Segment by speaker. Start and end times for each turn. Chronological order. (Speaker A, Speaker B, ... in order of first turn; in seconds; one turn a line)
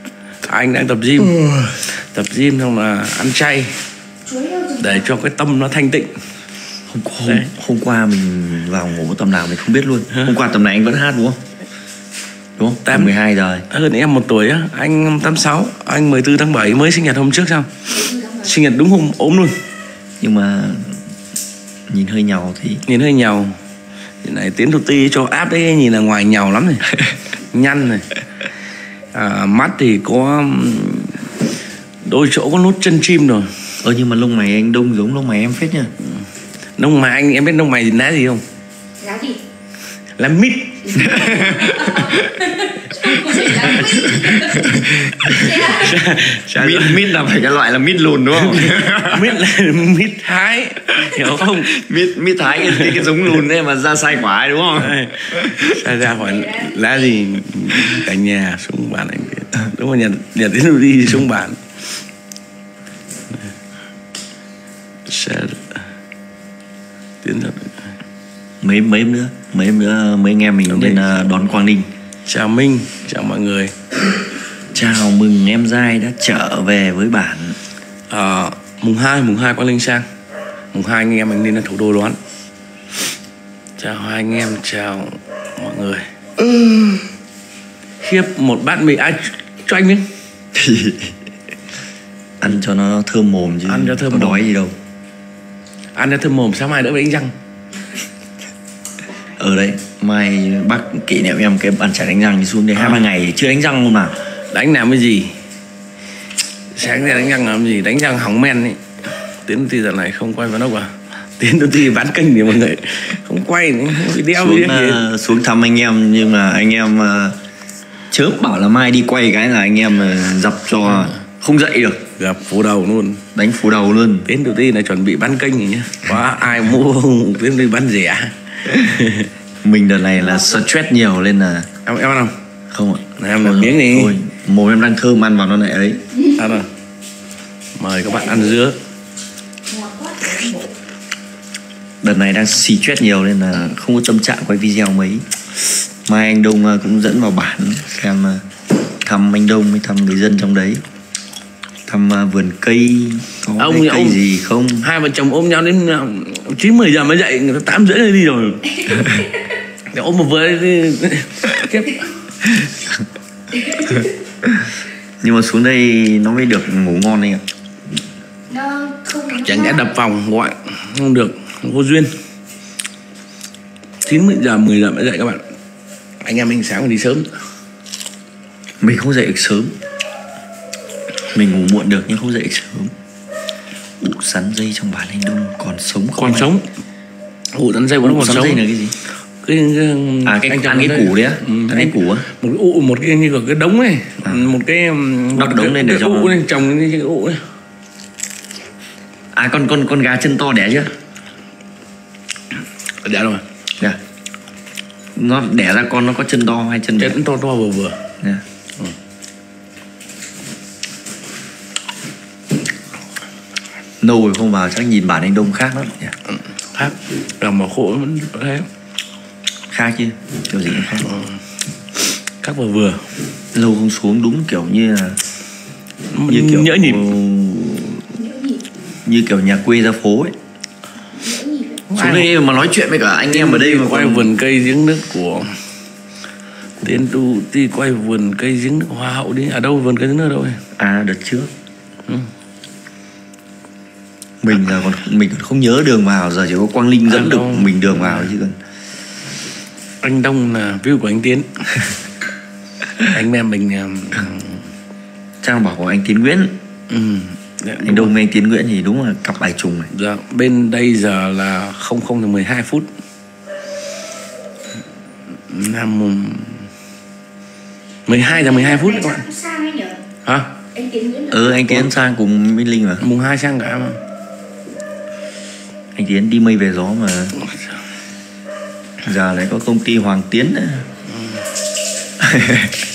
Speaker A: 0.4-3.7
Speaker B: 4.3-5.0
Speaker A: 4.8-6.1
Speaker C: 6.9-11.4
Speaker C: 12.6-13.7
Speaker A: 12.8-13.1
Speaker A: 13.7-17.7
Speaker B: 17.9-18.5
Speaker A: 18.4-19.5
Speaker C: 20.2-21.0
Speaker C: 21.9-22.8
Speaker A: 22.9-23.6
Speaker A: 24.2-26.9
Speaker A: 27.5-28.1
Speaker A: 29.1-31.3
Speaker A: 32.0-33.5
Speaker C: 33.8-35.9
Speaker A: 36.8-38.4
Speaker B: 39.0-39.4
Speaker A: 40.2-41.0
Speaker B: 40.8-46.0
Speaker C: 40.9-42.3
Speaker A: 43.0-47.2
Speaker C: 43.9-45.5
Speaker C: 46.5-49.4
Speaker A: 48.4-51.7
Speaker C: 51.0-55.9
Speaker A: 52.6-53.2
Speaker A: 54.8-61.6
Speaker A: 65.1-65.8
Speaker A: 67.2-67.7
Speaker C: 68.6-71.9
Speaker A: 70.7-71.2
Speaker A: 72.2-73.7
Speaker C: 74.7-77.6
Speaker A: 78.1-80.0
Speaker A: 80.7-82.2
Speaker A: 83.8-86.8
Speaker A: 88.0-90.0
Speaker C: 90.5-91.1
Speaker C: 92.4-94.7
Speaker A: 93.7-94.5
Speaker A: 96.0-97.3
Speaker C: 99.3-104.1
Speaker A: 102.7-103.1
Speaker A: 104.5-105.3
Speaker A: 106.7-115.0
Speaker C: 114.3-117.4
Speaker C: 118.1-122.0
Speaker A: 122.2-123.2
Speaker C: 123.3-124.3
Speaker A: 124.2-129.3
Speaker C: 129.6-131.7
Speaker B: 130.2-130.6
Speaker A: 131.8-132.3
Speaker C: 132.7-136.0
Speaker A: 133.2-134.1
Speaker A: 136.3-136.7
Speaker A: 137.8-138.8
Speaker B: 138.1-138.4
Speaker B: 139.7-140.7
Speaker C: 142.0-145.2
Speaker C: 146.0-148.4
Speaker C: 149.0-150.8
Speaker C: 151.9-154.9
Speaker A: 153.6-154.2
Speaker A: 154.8-158.7
Speaker B: 158.7-159.2
Speaker A: 159.9-162.0
Speaker B: 163.6-164.1
Speaker C: 165.2-167.4
Speaker B: 168.5-170.0
Speaker A: 169.3-172.1
Speaker A: 174.0-175.4
Speaker A: 176.2-177.3
Speaker C: 178.8-179.7
Speaker C: 181.3-182.9
Speaker C: 184.0-186.5
Speaker A: 186.2-186.6
Speaker A: 187.5-188.6
Speaker C: 188.0-188.9
Speaker A: 189.4-197.4
Speaker C: 190.2-192.3
Speaker C: 194.2-194.5
Speaker C: 195.3-196.4
Speaker C: 199.3-200.9
Speaker A: 203.0-203.4
Speaker C: 205.2-207.2
Speaker A: 207.0-208.0
Speaker C: 214.0-216.1
Speaker A: 216.7-218.7
Speaker C: 219.7-221.1
Speaker A: 220.9-221.3
Speaker A: 222.4-223.0
Speaker C: 223.5-225.2
Speaker A: 226.1-227.2
Speaker C: 226.3-228.2
Speaker B: 228.2-228.6
Speaker C: 229.0-230.3
Speaker B: 231.2-231.9
Speaker A: 231.9-232.3
Speaker C: 231.9-234.3
Speaker A: 233.3-235.5
Speaker A: 236.8-240.6
Speaker C: 240.8-241.5
Speaker C: 244.4-248.6
Speaker A: 247.1-248.3
Speaker A: 250.0-251.7
Speaker A: 253.0-254.6
Speaker C: 255.4-256.5
Speaker A: 256.9-258.1
Speaker C: 257.8-259.9
Speaker A: 259.9-262.9
Speaker A: 265.5-266.7
Speaker A: 268.1-269.3
Speaker B: 268.3-270.0
Speaker A: 270.2-270.5
Speaker B: 270.7-271.6
Speaker C: 271.3-273.0
Speaker A: 273.0-274.0
Speaker C: 275.9-277.4
Speaker C: 279.0-280.9
Speaker C: 282.2-282.7